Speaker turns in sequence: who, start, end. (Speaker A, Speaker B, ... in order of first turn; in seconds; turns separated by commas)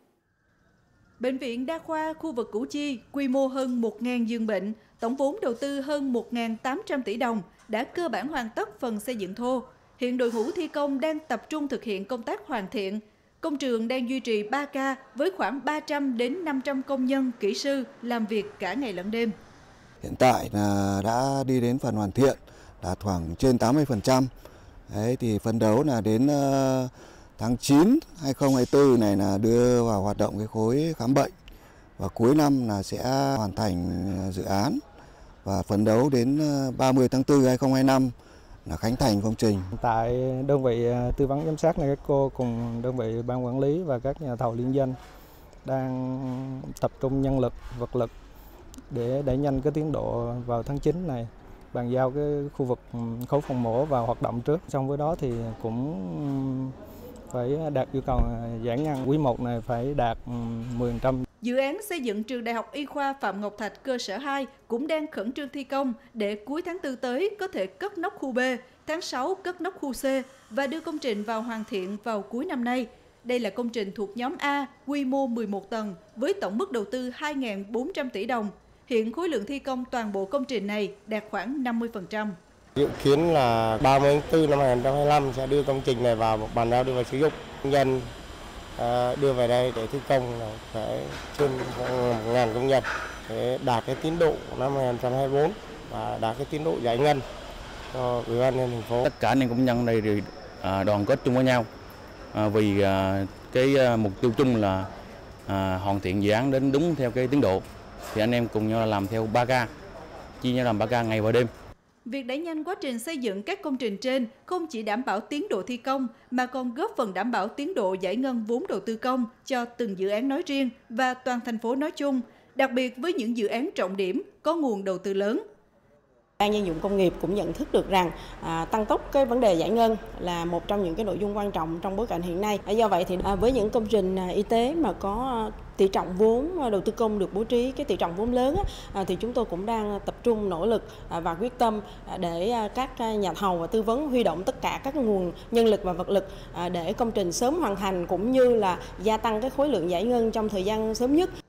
Speaker A: 1.2-19.3, Speaker B: 20.0-24.3, Speaker B: 24.9-31.3, Speaker B: 32.0-34.8, Speaker B: 35.4-38.1, Speaker B: 38.6-39.7, Speaker C: 39.7-45.0, Speaker C: 45.6-48.1, Speaker C: 48.9-56.7, Speaker C: 57.3-61.2, Speaker A: 61.4-82.3, Speaker D: 82.8-88.1, Speaker D: 88.8-97.2, Speaker D: 97.9-99.1, Speaker E: 99.1-101.7, Speaker E: 102.3-104.8, Speaker E: 105.5-107.6, Speaker E: 108.1-109.7, Speaker E: 110.4-111.5, Speaker A: 112.0-125.4, Speaker F: 126.4-151.3